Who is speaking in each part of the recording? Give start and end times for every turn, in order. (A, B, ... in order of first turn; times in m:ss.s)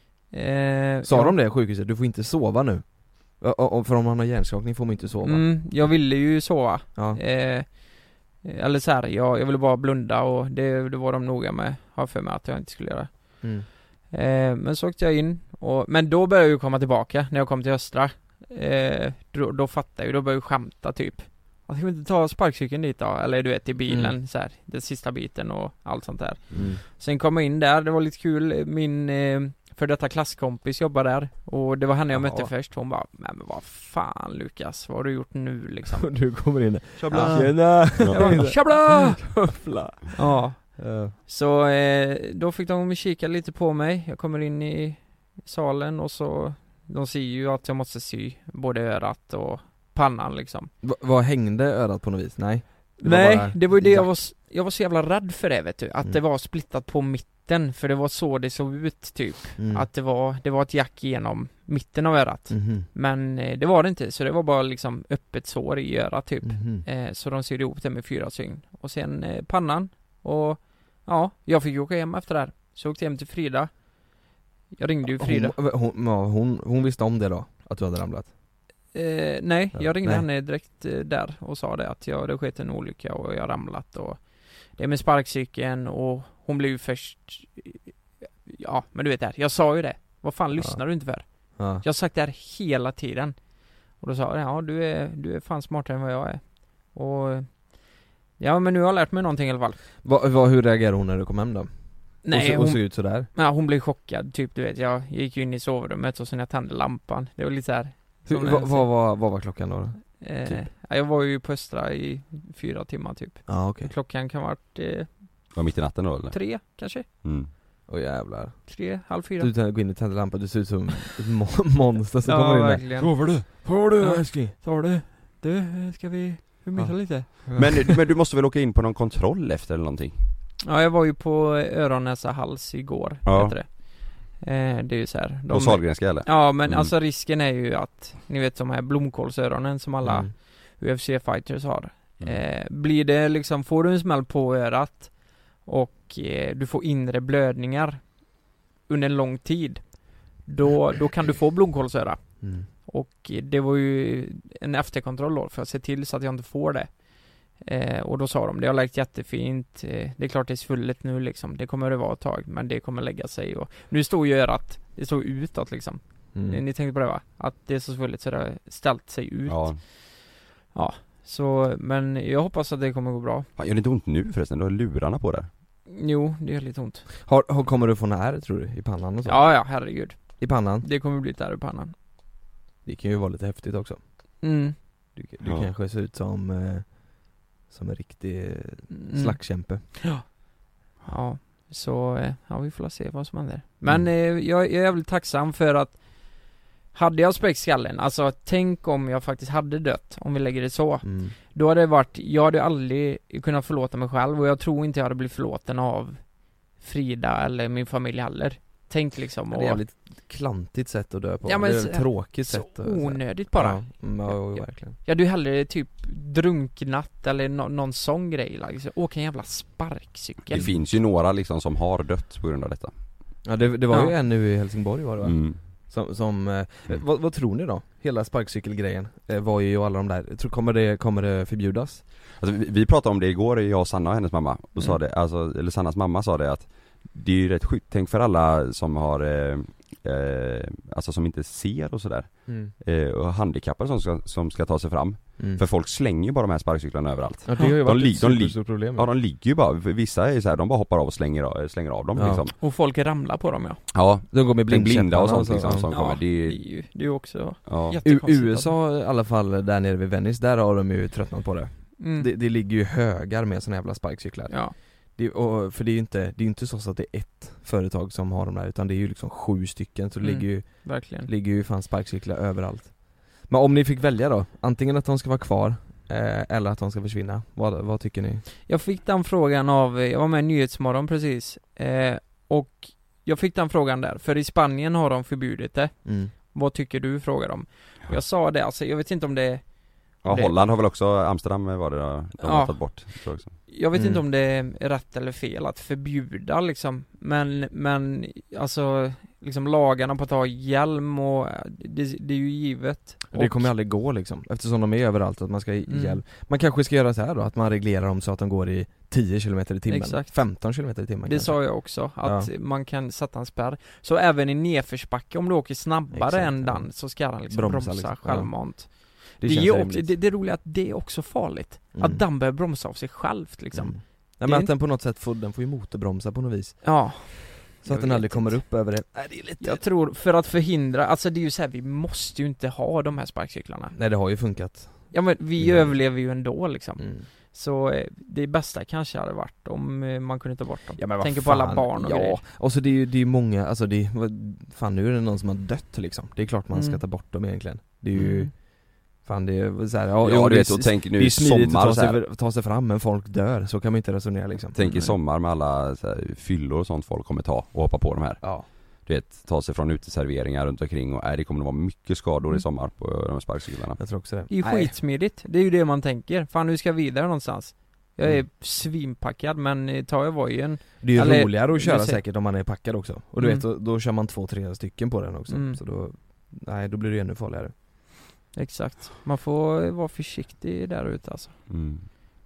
0:00.3-0:01.4 A
0:01.0-0:05.5 B
0:05.2-0:36.2 A
0:07.0-0:07.2 B
0:13.4-0:13.7 B
0:23.9-0:24.2 B
0:26.5-0:26.8 B
0:32.1-0:32.5 B
0:36.0-0:41.2 B
0:37.0-0:38.5 C
0:37.1-0:39.6 A
0:40.1-0:50.7 A
0:50.8-0:54.2 B
0:53.0-1:15.6 A
0:59.6-0:59.9 B
1:02.5-1:02.9 B
1:06.4-1:06.9 B
1:15.0-1:18.3 B
1:18.9-1:39.8 A
1:19.7-1:20.3 B
1:30.6-1:31.8 B
1:40.0-1:43.3 B
1:42.2-1:49.0 A
1:48.3-1:50.7 B
1:50.2-1:55.5 A
1:53.5-1:53.9 B
1:55.5-1:56.7 C
1:56.3-1:57.1 A
1:57.2-1:57.5 C
1:57.9-2:04.6 B
1:58.7-1:59.5 A
2:02.2-2:07.7 A
2:03.0-2:03.6 C
2:06.8-2:07.8 B
2:07.6-2:10.2 C
2:10.6-2:50.1 A
2:13.2-2:13.6 C
2:15.5-2:16.9 C
2:20.0-2:20.3 B
2:32.4-2:32.7 B
2:46.3-2:46.6 B
2:49.5-2:49.8 C
2:50.7-2:53.5 A
2:53.6-2:55.5 C
2:55.9-2:57.1 A
2:57.2-2:59.8 B
2:59.3-3:01.9 A
3:00.4-3:00.9 B
3:02.8-3:04.0 B
3:04.4-3:04.8 A
3:05.2-3:09.8 B
3:08.9-3:10.2 A
3:11.0-3:29.8 A
3:13.9-3:14.1 B
3:21.0-3:21.4 B
3:29.5-3:35.0 B
3:31.4-3:40.7 A
3:40.5-3:42.9 C
3:43.4-3:52.0 B
3:43.9-3:44.2 A
3:45.2-3:45.6 C
3:52.4-4:12.5 C
4:02.5-4:02.7 B
4:05.4-4:05.6 B
4:07.4-4:09.1 B
4:12.2-4:12.5 B
4:12.6-4:13.8 A
4:13.9-4:16.6 C
4:14.3-4:15.9 B
4:15.9-4:18.7 A
4:17.7-4:18.0 C
4:18.0-4:38.5 B
4:22.0-4:22.3 A
4:24.5-4:24.8 A
4:30.2-4:31.3 A
4:38.7-4:50.6 A
4:46.0-4:46.3 B
4:50.2-4:53.6 C
4:52.4-5:03.7 A
4:53.9-4:54.2 B
5:03.3-5:12.5 B
5:05.9-5:06.2 A
5:09.9-5:24.7 A
5:16.1-5:20.2 B
5:21.9-5:22.2 B
5:23.7-5:29.8 B
5:26.8-5:28.8 A
5:29.6-5:34.0 A
5:33.9-5:36.1 B
5:35.1-5:42.4 A
5:37.0-5:37.3 B
5:41.0-5:54.8 B
5:46.7-5:47.0 A
5:48.1-5:48.5 A
5:50.2-5:52.2 C
5:54.8-6:04.0 C
5:54.8-5:55.1 A
5:58.4-5:58.7 B
6:04.0-6:05.0 B
6:04.5-6:12.2 A
6:11.0-6:17.7 B
6:13.4-6:13.7 A
6:15.5-6:15.8 A
6:18.5-6:21.7 A
6:21.7-6:22.1 C